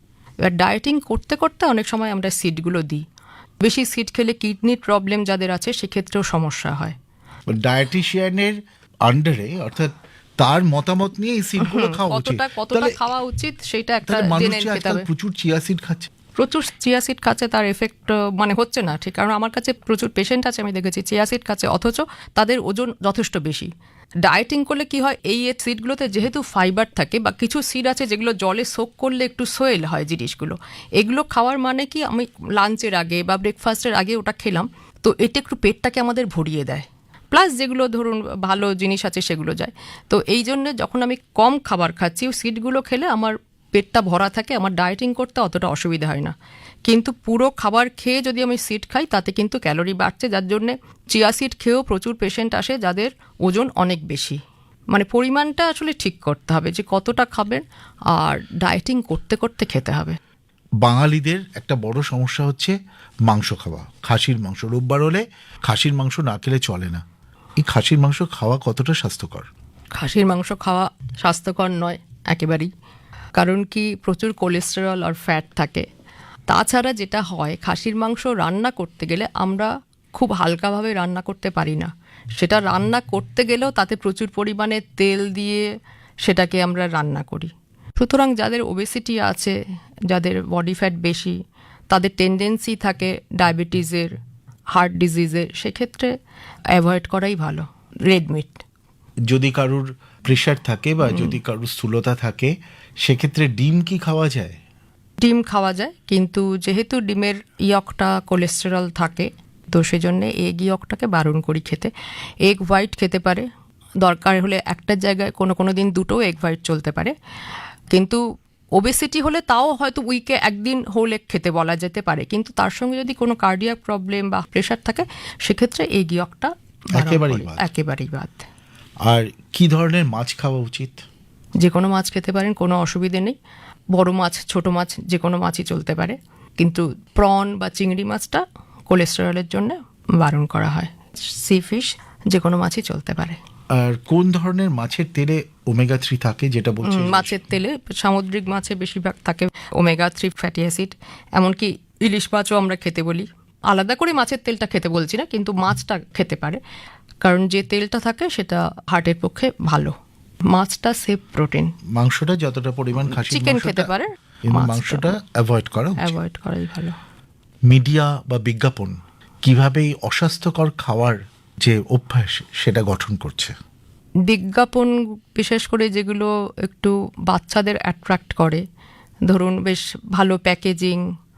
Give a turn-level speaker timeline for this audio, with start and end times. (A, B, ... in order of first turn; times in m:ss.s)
0:00.4-0:03.0 A
0:03.6-0:07.0 A
0:07.5-0:13.0 B
0:11.6-0:15.1 A
0:14.1-0:16.1 B
0:16.4-0:23.7 A
0:24.2-0:46.3 A
0:46.9-0:54.4 A
0:54.9-0:57.6 A
0:58.1-1:00.2 A
1:00.8-1:02.8 B
1:03.3-1:07.0 B
1:07.6-1:09.5 B
1:10.0-1:12.7 A
1:13.4-1:15.9 A
1:16.5-1:25.7 A
1:26.2-1:29.6 A
1:30.1-1:31.4 A
1:31.9-1:34.1 A
1:34.7-1:36.1 A
1:36.7-1:38.6 A
1:39.3-1:44.6 B
1:41.0-1:41.4 A
1:45.2-1:51.9 A
1:52.4-1:53.5 A
1:54.0-1:57.1 A
1:57.9-1:58.2 A
1:58.8-2:08.5 A
2:06.9-2:07.7 B
2:09.1-2:11.0 B
2:11.6-2:13.4 A
2:13.9-2:23.4 A
2:23.8-2:27.4 B
2:26.8-2:36.6 A
2:37.2-2:39.9 A
2:40.5-2:41.7 A
2:42.0-2:43.9 B
2:43.1-2:45.2 A
2:44.5-2:46.2 B
2:46.0-2:47.0 A
2:47.7-2:53.5 B
2:54.2-2:58.6 A
2:59.3-3:01.0 A